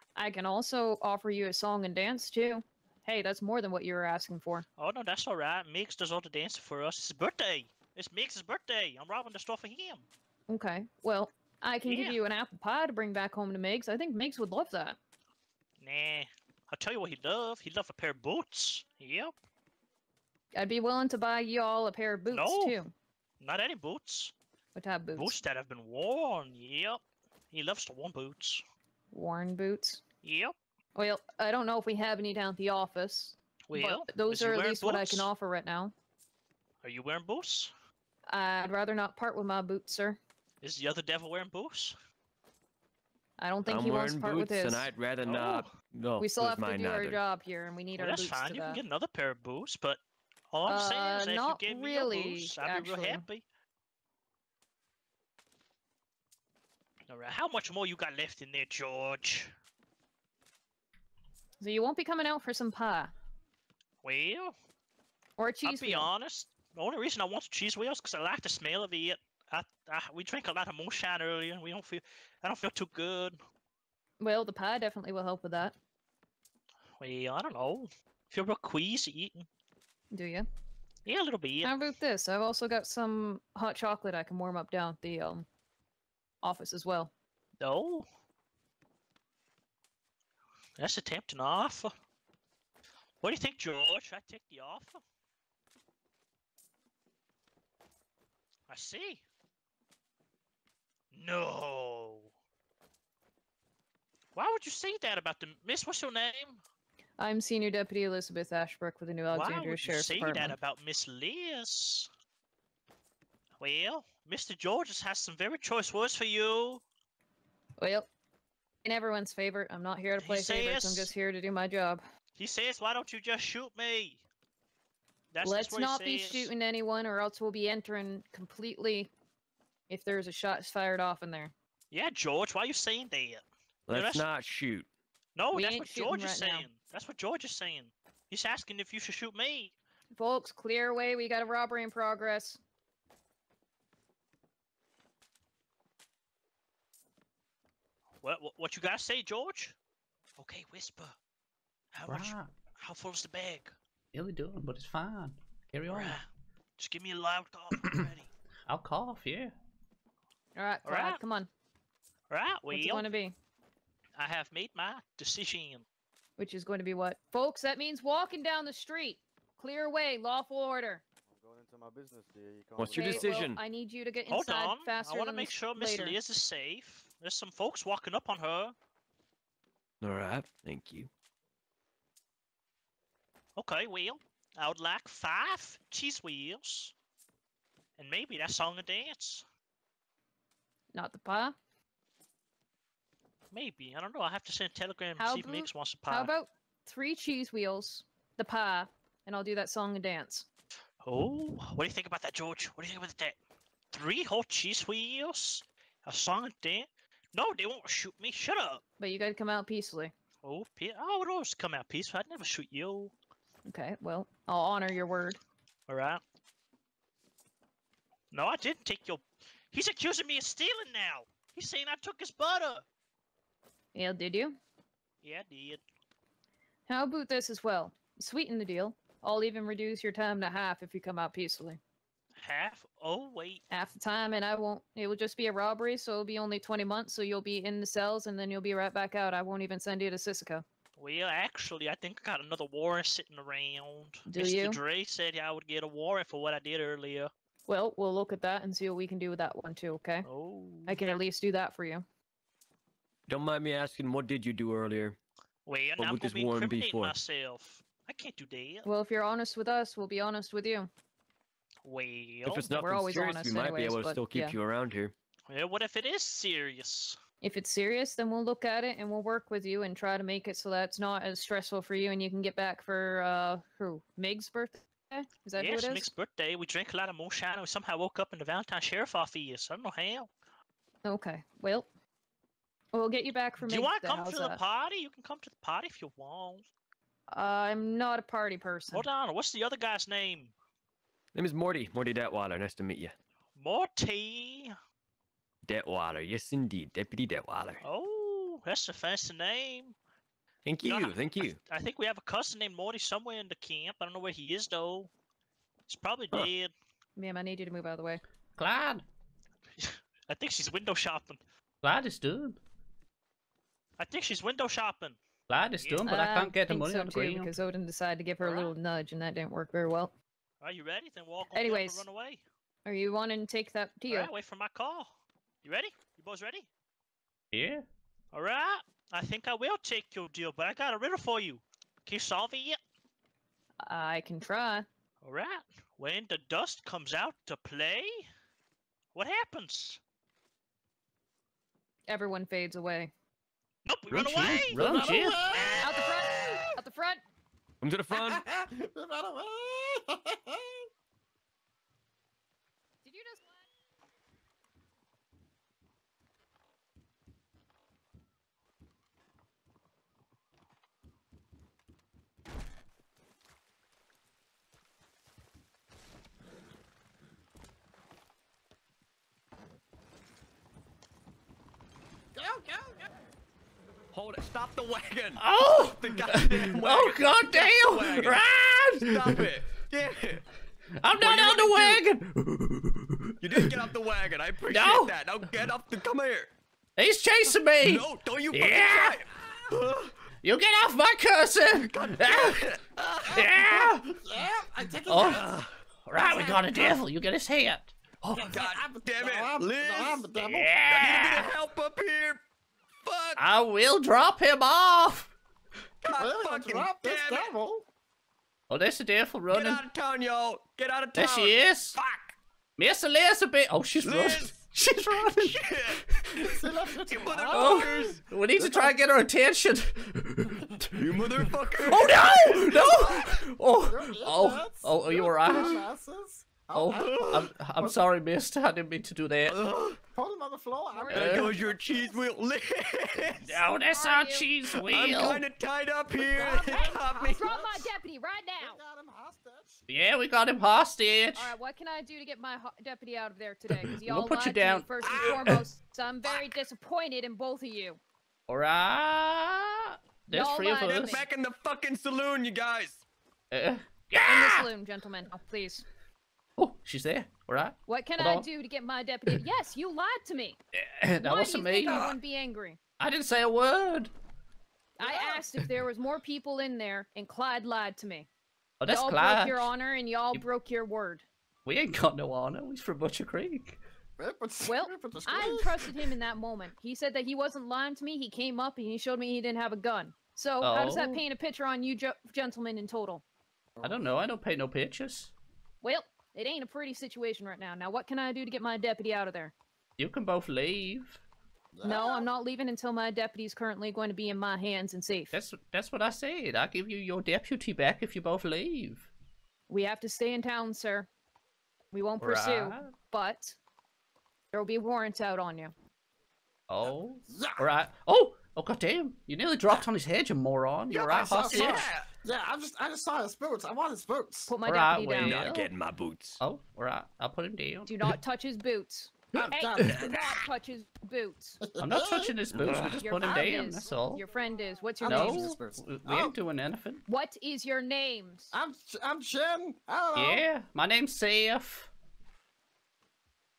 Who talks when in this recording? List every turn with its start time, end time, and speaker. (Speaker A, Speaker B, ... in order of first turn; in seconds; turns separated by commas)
Speaker A: 0.1-4.6, Speaker B: 4.8-10.1, Speaker A: 10.5-15.0, Speaker B: 11.8-12.2, Speaker B: 15.8-19.3, Speaker A: 20.5-22.9, Speaker B: 22.3-22.8, Speaker B: 23.4-24.3, Speaker A: 24.7-25.4, Speaker B: 25.1-28.6, Speaker A: 29.1-30.0, Speaker B: 30.2-30.5, Speaker A: 30.9-35.9, Speaker B: 33.7-35.3, Speaker B: 36.8-37.7, Speaker A: 38.3-40.2, Speaker B: 40.6-42.0, Speaker A: 43.4-44.9, Speaker C: 43.6-47.2, Speaker B: 45.2-45.7, Speaker A: 46.2-48.8, Speaker B: 48.0-50.0, Speaker B: 50.5-53.4, Speaker A: 50.7-53.2, Speaker B: 57.1-59.5, Speaker A: 61.6-63.1, Speaker B: 64.0-64.5, Speaker A: 65.4-66.1, Speaker B: 65.6-73.4, Speaker A: 74.2-75.7, Speaker B: 77.0-79.5, Speaker A: 80.1-80.5, Speaker B: 81.0-81.7, Speaker A: 81.6-85.5, Speaker A: 86.4-87.1, Speaker B: 87.6-88.0, Speaker B: 90.8-91.9, Speaker B: 93.2-95.0, Speaker B: 98.7-99.2, Speaker B: 101.1-102.3, Speaker B: 104.3-106.6, Speaker A: 107.2-110.6, Speaker B: 109.3-112.1, Speaker B: 113.6-116.8, Speaker A: 117.8-118.1, Speaker A: 118.8-122.0, Speaker B: 120.2-121.1, Speaker B: 122.3-124.2, Speaker B: 125.3-126.5, Speaker A: 125.4-129.1, Speaker A: 129.9-131.5, Speaker B: 131.9-134.2, Speaker C: 133.9-134.9, Speaker B: 135.3-139.7, Speaker A: 135.5-136.7, Speaker A: 140.1-142.6, Speaker B: 148.2-149.7, Speaker B: 150.4-151.2, Speaker B: 151.9-153.7, Speaker D: 152.1-152.5, Speaker D: 154.1-156.2, Speaker B: 155.9-156.2, Speaker B: 156.8-158.3, Speaker D: 158.7-159.5, Speaker A: 160.6-161.5, Speaker B: 160.8-161.2, Speaker B: 162.3-163.1, Speaker A: 162.7-163.3, Speaker B: 164.2-165.8, Speaker A: 166.4-171.0, Speaker E: 171.3-173.4, Speaker C: 172.8-173.6, Speaker A: 172.9-176.2, Speaker B: 174.3-178.7, Speaker C: 180.0-181.1, Speaker B: 183.6-186.9, Speaker B: 188.0-189.4, Speaker A: 190.9-191.5, Speaker B: 193.5-196.3, Speaker A: 195.2-200.4, Speaker B: 201.0-203.3, Speaker B: 203.9-208.8, Speaker A: 209.0-210.1, Speaker B: 210.4-213.1, Speaker A: 213.7-215.4, Speaker B: 215.9-216.2, Speaker B: 218.3-222.8, Speaker A: 223.9-224.6, Speaker B: 225.2-225.8, Speaker A: 226.9-231.8, Speaker B: 232.4-233.6, Speaker A: 233.7-240.6, Speaker B: 241.0-247.3, Speaker A: 244.3-244.8, Speaker A: 247.7-250.2, Speaker B: 250.2-251.1, Speaker A: 250.9-252.0, Speaker C: 253.3-255.2, Speaker B: 255.7-258.9, Speaker C: 256.0-257.2, Speaker A: 258.8-260.9, Speaker B: 261.8-262.7, Speaker C: 262.4-265.1, Speaker A: 262.7-264.6, Speaker B: 265.5-267.1, Speaker A: 267.4-276.1, Speaker B: 275.6-280.3, Speaker A: 281.0-281.9, Speaker A: 282.9-284.6, Speaker B: 283.6-286.6, Speaker A: 287.3-289.1, Speaker B: 288.9-290.5, Speaker C: 291.3-293.1, Speaker B: 293.6-294.7, Speaker C: 295.6-297.8, Speaker B: 297.8-299.9, Speaker C: 300.6-301.6, Speaker B: 300.8-305.1, Speaker B: 305.9-306.7, Speaker A: 307.2-308.2, Speaker D: 308.6-309.1, Speaker B: 309.8-311.4, Speaker D: 311.8-312.6, Speaker B: 314.0-315.2, Speaker D: 315.5-317.5, Speaker B: 315.8-316.1, Speaker A: 316.1-320.1, Speaker B: 318.4-318.7, Speaker B: 320.6-322.4, Speaker A: 321.5-322.0, Speaker A: 322.9-324.3, Speaker B: 324.1-325.1, Speaker B: 325.6-326.7, Speaker D: 327.5-327.8, Speaker B: 328.3-332.8, Speaker A: 333.9-334.8, Speaker B: 335.2-338.3, Speaker B: 339.1-340.0, Speaker A: 342.1-343.1, Speaker B: 343.8-344.8, Speaker D: 344.1-345.5, Speaker C: 344.3-344.6, Speaker F: 344.7-345.9, Speaker B: 345.5-346.1, Speaker A: 345.8-347.2, Speaker C: 347.8-348.4, Speaker F: 348.1-350.8, Speaker A: 353.0-353.6, Speaker F: 372.3-373.1, Speaker C: 374.1-378.4, Speaker D: 375.4-379.3, Speaker C: 379.0-380.4, Speaker D: 381.0-383.7, Speaker C: 381.2-382.0, Speaker C: 383.4-386.5, Speaker D: 384.7-385.7, Speaker D: 387.0-389.2, Speaker C: 387.8-390.1, Speaker D: 390.4-392.7, Speaker C: 391.8-393.4, Speaker D: 393.3-394.0, Speaker F: 393.4-395.5, Speaker D: 395.1-398.5, Speaker C: 395.3-395.6, Speaker F: 396.2-397.0, Speaker C: 398.4-402.4, Speaker F: 398.5-400.7, Speaker D: 400.4-401.5, Speaker C: 403.0-403.4, Speaker D: 403.4-405.3, Speaker C: 406.0-407.5, Speaker F: 406.1-407.9, Speaker D: 408.7-409.8, Speaker C: 409.5-412.3, Speaker D: 411.1-412.0, Speaker D: 412.8-416.4, Speaker C: 414.0-414.7, Speaker C: 415.3-418.2, Speaker F: 416.4-418.9, Speaker D: 417.5-420.9, Speaker C: 420.9-422.8, Speaker D: 421.8-425.9, Speaker F: 422.7-423.1, Speaker F: 423.8-428.0, Speaker D: 426.7-429.6, Speaker C: 426.9-427.5, Speaker C: 429.5-430.0, Speaker F: 430.1-431.7, Speaker A: 430.9-432.3, Speaker D: 431.1-431.5, Speaker C: 431.1-433.6, Speaker D: 433.4-435.4, Speaker A: 433.9-434.5, Speaker C: 434.7-437.9, Speaker F: 436.2-437.7, Speaker A: 436.2-438.8, Speaker F: 438.6-439.8, Speaker D: 439.9-441.5, Speaker A: 441.3-448.0, Speaker D: 444.0-445.0, Speaker C: 445.0-445.6, Speaker D: 448.5-451.2, Speaker A: 450.3-451.3, Speaker C: 450.8-453.0, Speaker D: 453.5-454.7, Speaker A: 454.2-455.9, Speaker D: 456.6-458.5, Speaker A: 457.9-460.6, Speaker D: 460.7-462.1, Speaker A: 461.2-462.8, Speaker C: 461.9-462.2, Speaker D: 463.0-464.1, Speaker A: 465.0-468.3, Speaker F: 465.0-465.4, Speaker D: 468.8-469.7, Speaker A: 468.9-471.2, Speaker D: 471.6-473.8, Speaker F: 474.2-476.1, Speaker A: 474.6-483.2, Speaker D: 480.6-481.2, Speaker F: 483.8-484.0, Speaker D: 483.8-485.3, Speaker A: 485.8-489.5, Speaker D: 490.0-491.2, Speaker F: 491.7-492.2, Speaker A: 491.8-495.4, Speaker D: 495.3-499.1, Speaker A: 499.7-501.1, Speaker A: 501.9-503.6, Speaker D: 502.2-502.9, Speaker A: 504.5-505.7, Speaker D: 506.7-511.9, Speaker F: 507.3-507.7, Speaker C: 510.9-512.1, Speaker F: 511.1-514.5, Speaker A: 514.5-515.4, Speaker D: 514.6-515.7, Speaker C: 515.2-516.4, Speaker D: 516.4-518.1, Speaker A: 517.9-521.6, Speaker F: 519.3-520.2, Speaker C: 519.4-520.0, Speaker F: 521.6-522.3, Speaker D: 521.8-524.2, Speaker C: 522.5-523.4, Speaker A: 523.0-525.5, Speaker F: 525.0-526.3, Speaker D: 525.0-527.0, Speaker A: 527.0-528.5, Speaker F: 528.5-530.4, Speaker D: 530.1-531.9